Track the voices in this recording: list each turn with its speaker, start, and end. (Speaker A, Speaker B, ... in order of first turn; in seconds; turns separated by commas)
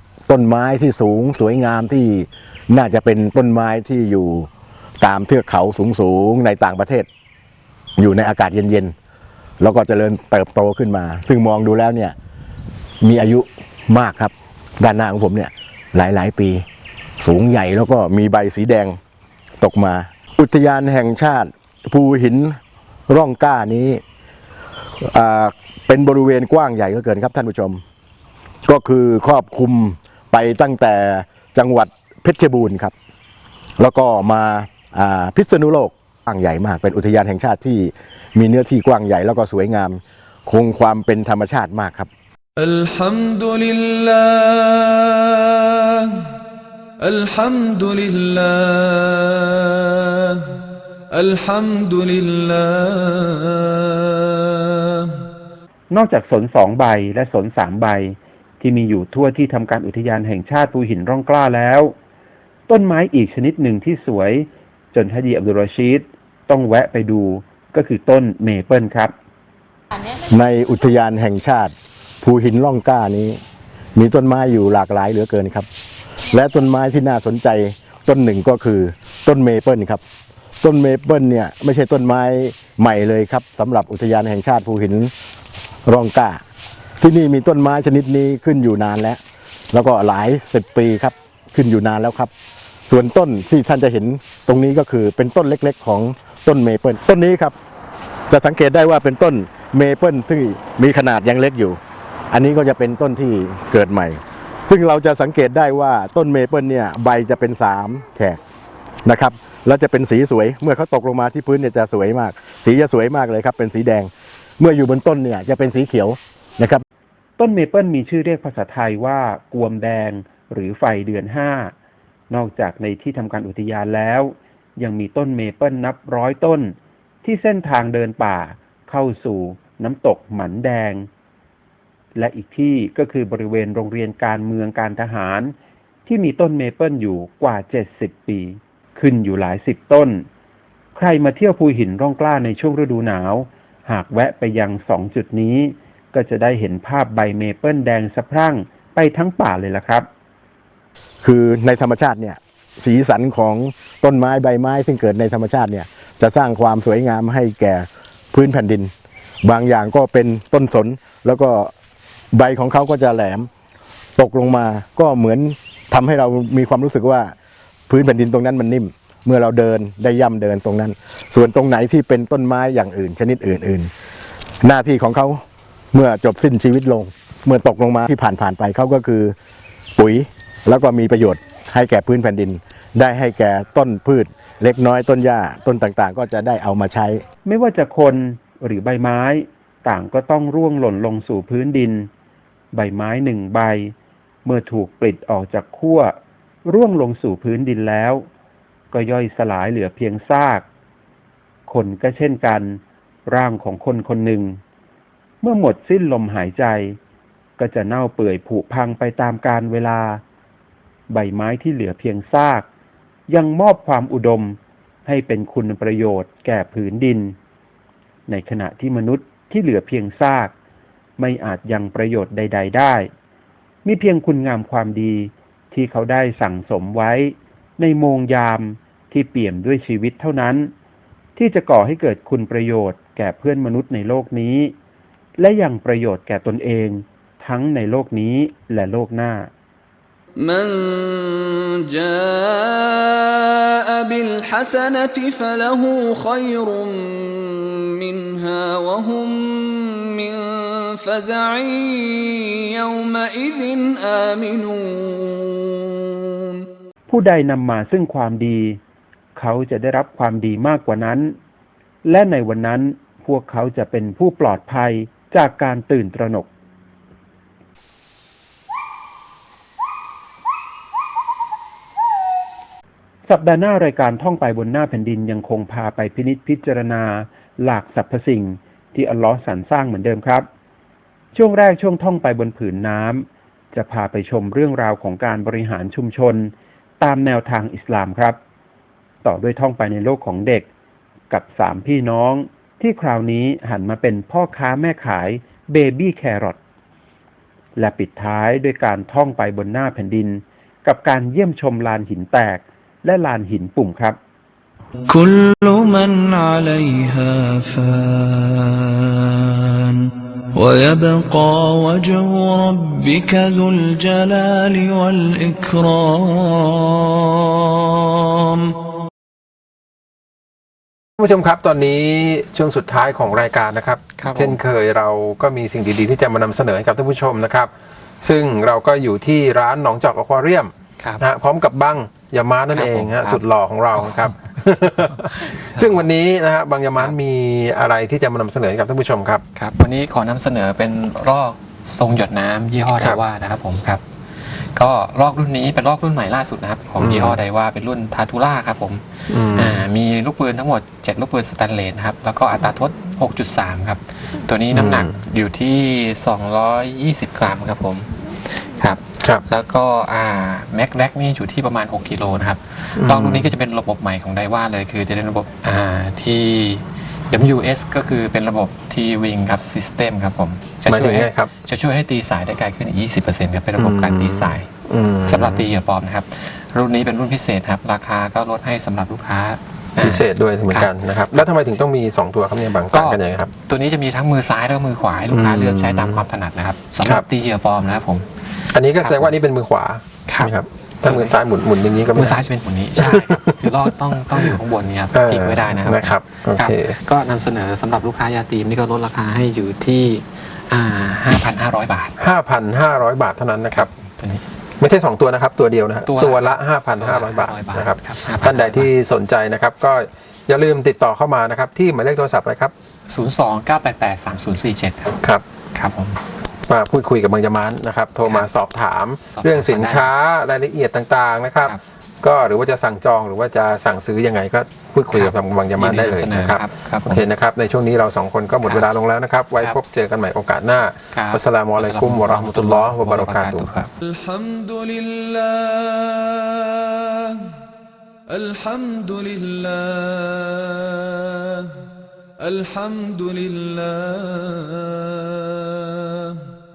Speaker A: 0.3-4.5, Speaker A: 5.0-7.1, Speaker A: 8.0-8.9, Speaker A: 9.6-12.1, Speaker A: 13.0-16.6, Speaker A: 17.2-19.0, Speaker A: 19.6-22.6, Speaker A: 23.1-24.0, Speaker A: 25.0-27.8, Speaker A: 28.6-32.9, Speaker A: 33.8-42.1, Speaker B: 42.6-46.3, Speaker B: 47.0-50.5, Speaker B: 51.1-55.2, Speaker C: 55.9-61.9, Speaker C: 62.7-69.1, Speaker A: 70.2-73.4, Speaker A: 73.9-75.7, Speaker A: 76.3-80.0, Speaker A: 80.6-85.1, Speaker A: 85.9-86.4, Speaker A: 87.0-89.2, Speaker A: 89.7-92.3, Speaker A: 92.9-97.5, Speaker A: 98.3-101.8, Speaker A: 102.3-108.4, Speaker A: 109.0-116.8, Speaker C: 117.4-121.7, Speaker C: 122.3-131.1, Speaker C: 132.1-135.5, Speaker C: 136.1-140.2, Speaker C: 140.9-150.1, Speaker A: 151.2-158.9, Speaker A: 159.4-161.7, Speaker A: 162.3-163.5, Speaker A: 164.2-167.3, Speaker A: 167.9-173.9, Speaker A: 174.6-175.4, Speaker A: 175.9-179.3, Speaker A: 180.0-187.2, Speaker C: 187.4-192.1, Speaker C: 192.7-193.9, Speaker C: 194.4-196.1, Speaker C: 196.6-198.3, Speaker C: 198.9-200.7, Speaker C: 201.7-204.6, Speaker C: 205.4-207.0, Speaker C: 207.6-210.2, Speaker C: 211.1-212.7, Speaker C: 213.3-217.3, Speaker C: 218.3-220.5, Speaker C: 221.2-223.1, Speaker C: 223.8-230.7, Speaker C: 231.3-234.7, Speaker C: 235.4-239.5, Speaker B: 240.4-256.6, Speaker C: 257.1-258.8, Speaker C: 259.3-261.3, Speaker C: 262.0-266.5, Speaker C: 273.2-280.4, Speaker C: 281.3-288.4, Speaker C: 289.2-290.7, Speaker C: 291.3-296.6, Speaker C: 297.8-304.2, Speaker B: 305.1-318.7, Speaker D: 321.2-339.4, Speaker E: 324.2-324.6, Speaker E: 332.7-333.4, Speaker E: 333.9-334.4, Speaker E: 335.2-336.1, Speaker E: 339.6-344.0, Speaker D: 342.9-343.2, Speaker E: 344.7-374.7, Speaker D: 347.0-347.4, Speaker D: 349.3-349.8, Speaker D: 354.7-355.2, Speaker D: 362.9-363.5, Speaker D: 370.9-371.5, Speaker D: 373.7-375.7, Speaker E: 375.3-381.5, Speaker D: 380.0-383.5, Speaker E: 382.8-389.3, Speaker D: 385.3-386.2, Speaker D: 388.7-394.5, Speaker E: 390.3-391.4, Speaker E: 392.1-402.1, Speaker D: 395.1-396.9, Speaker D: 402.2-403.9, Speaker E: 403.7-404.4, Speaker D: 404.8-412.7, Speaker E: 406.1-408.9, Speaker E: 413.1-415.2, Speaker E: 415.7-416.2, Speaker D: 416.7-433.7, Speaker E: 418.2-418.5, Speaker E: 419.3-420.1, Speaker E: 425.1-427.2, Speaker E: 428.6-428.9, Speaker E: 431.1-433.9, Speaker B: 434.0-437.5, Speaker B: 438.3-441.8, Speaker B: 442.4-446.4